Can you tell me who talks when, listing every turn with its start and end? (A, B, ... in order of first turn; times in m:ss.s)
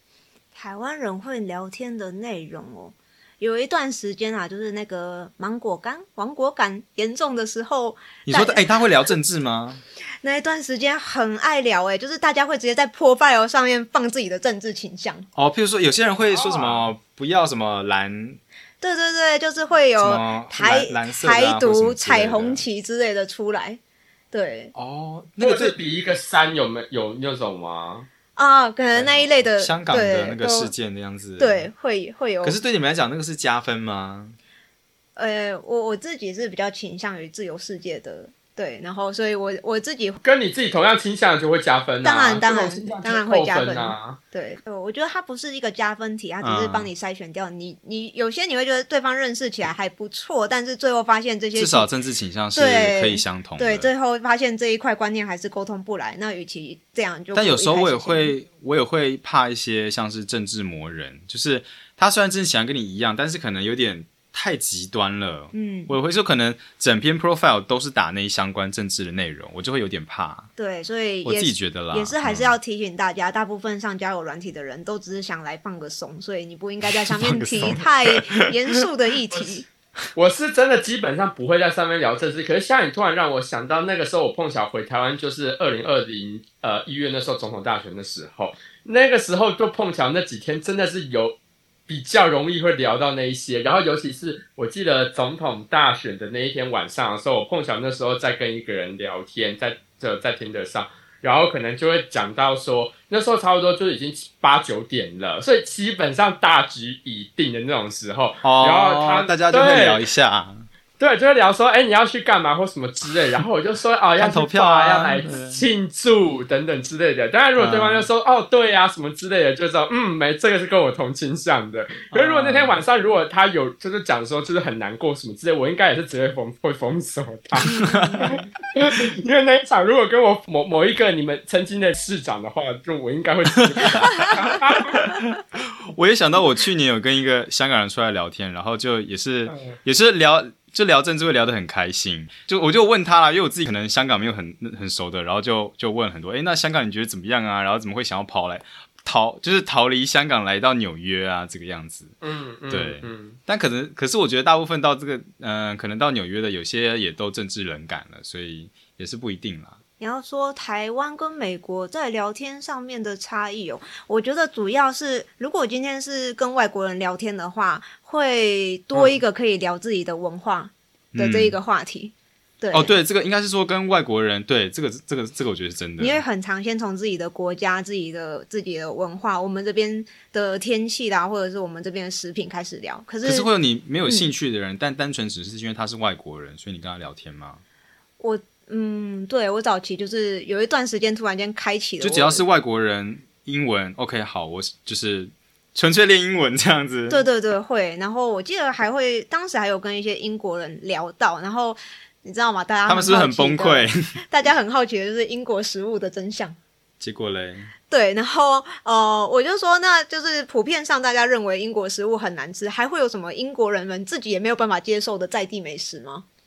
0:00.5-0:08.6 A
0:08.2-0:09.8 B
0:10.2-0:15.2 A
0:15.3-0:18.4 B
0:16.2-0:16.9 C
0:18.8-0:23.8 A
0:20.0-0:22.6 B
0:24.3-0:24.7 A
0:24.7-0:25.8 B
0:25.4-0:28.1 C
0:28.4-0:30.7 A
0:29.6-0:31.7 B
0:31.4-0:32.6 A
0:32.4-0:34.4 B
0:35.2-0:40.2 A
0:40.2-0:44.2 C
0:42.0-0:51.9 A
0:46.4-0:46.9 B
0:51.5-0:53.9 B
0:52.5-0:58.3 A
0:57.3-1:10.5 B
1:05.5-1:05.9 A
1:10.6-1:19.6 A
1:11.2-1:12.6 B
1:16.9-1:18.8 B
1:20.1-1:31.4 C
1:31.9-1:50.0 C
1:48.4-1:50.6 B
1:51.0-2:15.1 C
1:54.2-1:55.6 B
1:57.6-1:58.1 B
2:02.1-2:02.8 B
2:07.6-2:08.4 B
2:07.7-2:08.3 A
2:13.6-2:32.1 B
2:19.5-2:19.8 C
2:32.2-2:33.4 C
2:32.7-2:39.8 B
2:40.0-2:53.0 A
2:51.1-2:51.6 B
2:52.7-2:56.2 B
2:56.0-3:03.5 A
3:03.2-3:07.6 B
3:08.2-3:12.4 A
3:12.0-3:17.2 B
3:17.1-3:26.6 A
3:22.8-3:24.1 B
3:27.0-3:27.7 B
3:27.9-3:36.2 A